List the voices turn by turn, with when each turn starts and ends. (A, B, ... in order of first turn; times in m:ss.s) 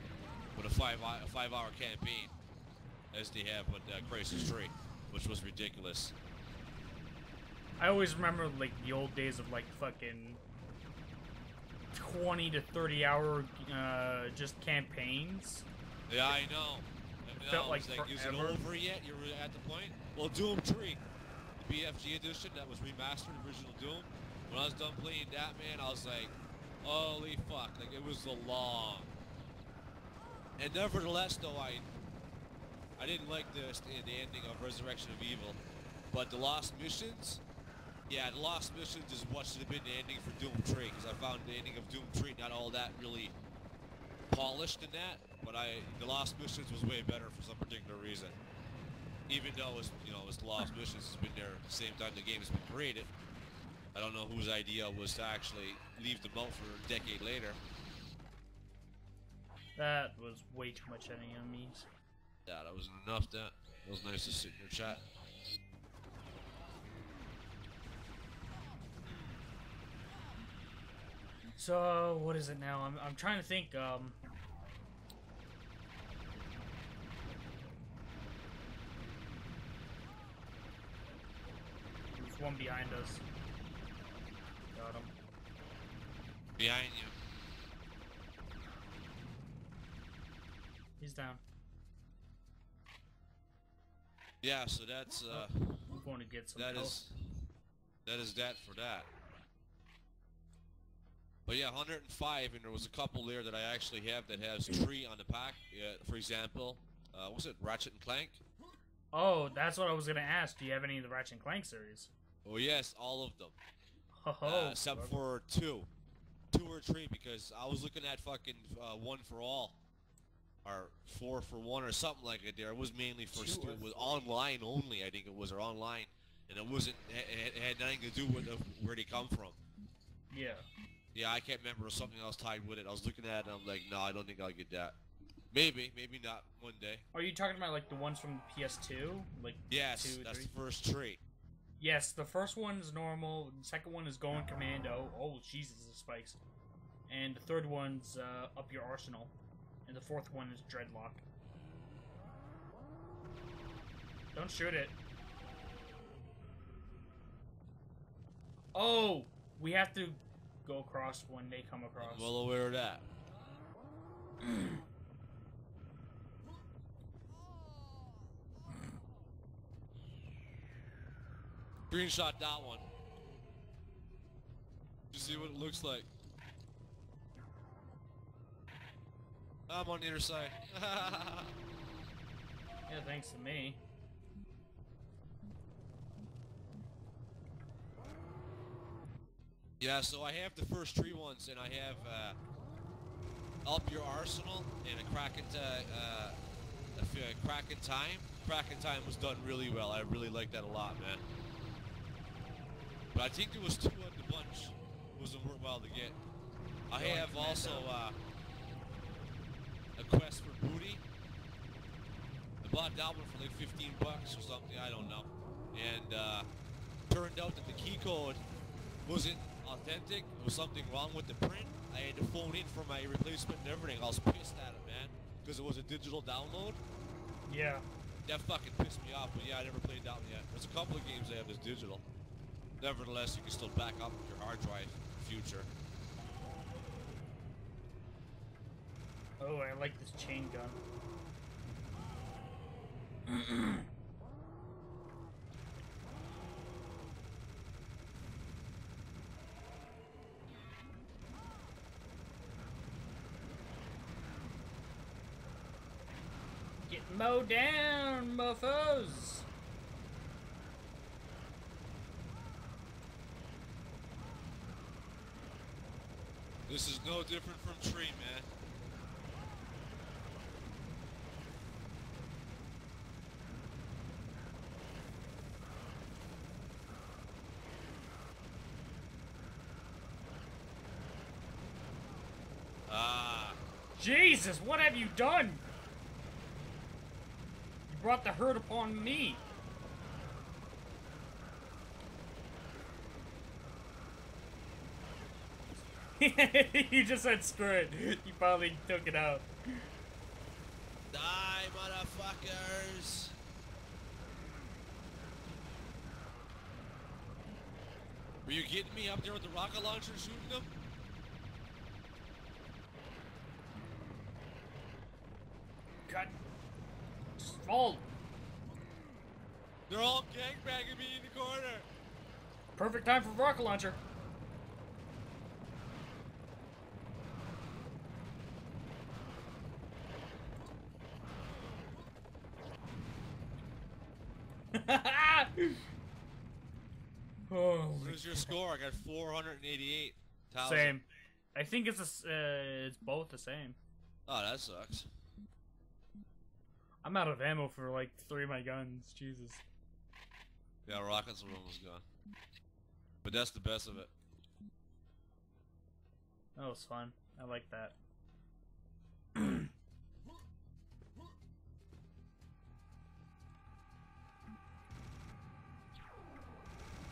0:00.5-0:02.3 A
0:03.1-0:06.1 A
0:07.8-0:10.4 B
0:11.9-0:15.7 B
0:16.1-0:21.0 A
0:17.4-0:18.6 B
0:21.6-0:29.1 A
0:30.6-0:31.8 A
0:33.0-0:37.4 A
0:38.1-0:43.3 A
0:44.3-0:48.4 A
0:49.3-0:53.1 A
0:53.9-0:57.6 A
0:59.8-1:01.9 B
1:02.4-1:05.0 A
1:11.6-1:14.2 B
1:22.1-1:23.2 B
1:24.7-1:25.1 B
1:26.6-1:27.1 A
1:31.0-1:31.4 B
1:34.4-1:35.9 A
1:35.3-1:37.0 B
1:36.6-1:37.4 A
1:38.0-1:39.1 A
1:41.4-1:48.4 A
1:49.1-1:52.1 B
1:52.4-1:53.6 A
1:54.1-1:55.2 B
1:54.4-1:55.9 A
1:56.5-1:59.8 A
2:00.6-2:09.6 A
2:03.3-2:04.2 B
2:10.3-2:10.6 B
2:11.1-2:15.0 A
2:15.5-2:17.0 A
2:17.1-2:20.5 B
2:19.7-2:21.2 A
2:21.8-2:26.4 B
2:27.1-2:29.3 B
2:29.8-2:31.2 B
2:34.3-2:35.0 B
2:38.7-2:42.3 B
2:42.0-2:43.0 A
2:51.9-2:52.9 A
2:55.1-2:56.1 A
2:59.7-3:01.5 A
3:02.9-3:03.8 B
3:09.8-3:12.4 A
3:13.6-3:16.4 A
3:17.0-3:21.2 A
3:23.1-3:26.2 A
3:26.9-3:28.2 A
3:26.9-3:27.9 B
3:30.0-3:31.0 A
3:32.6-3:36.5 A
3:37.1-3:38.4 A
3:39.0-3:46.8 A
3:47.5-3:47.8 B
3:48.2-3:52.0 A
3:52.8-3:55.7 A
3:59.4-4:00.8 B
4:03.3-4:03.8 B
4:16.8-4:19.4 B
4:26.7-4:28.5 A
4:42.9-4:43.6 A
4:44.0-4:45.6 B
4:47.9-4:49.4 B
4:56.2-4:59.5 B
5:01.1-5:03.4 A
5:08.4-5:10.7 A
5:16.1-5:16.3 B
5:17.4-5:18.1 B
5:19.9-5:21.8 A
5:22.7-5:24.0 B
5:34.7-5:35.8 B
5:37.5-5:38.6 B
5:38.0-5:41.0 A
5:40.6-5:43.8 B
5:44.3-5:45.1 A
5:47.0-5:49.6 B
5:50.8-5:52.0 A
5:53.2-5:54.1 A
5:56.6-5:58.0 B
5:59.3-5:59.7 B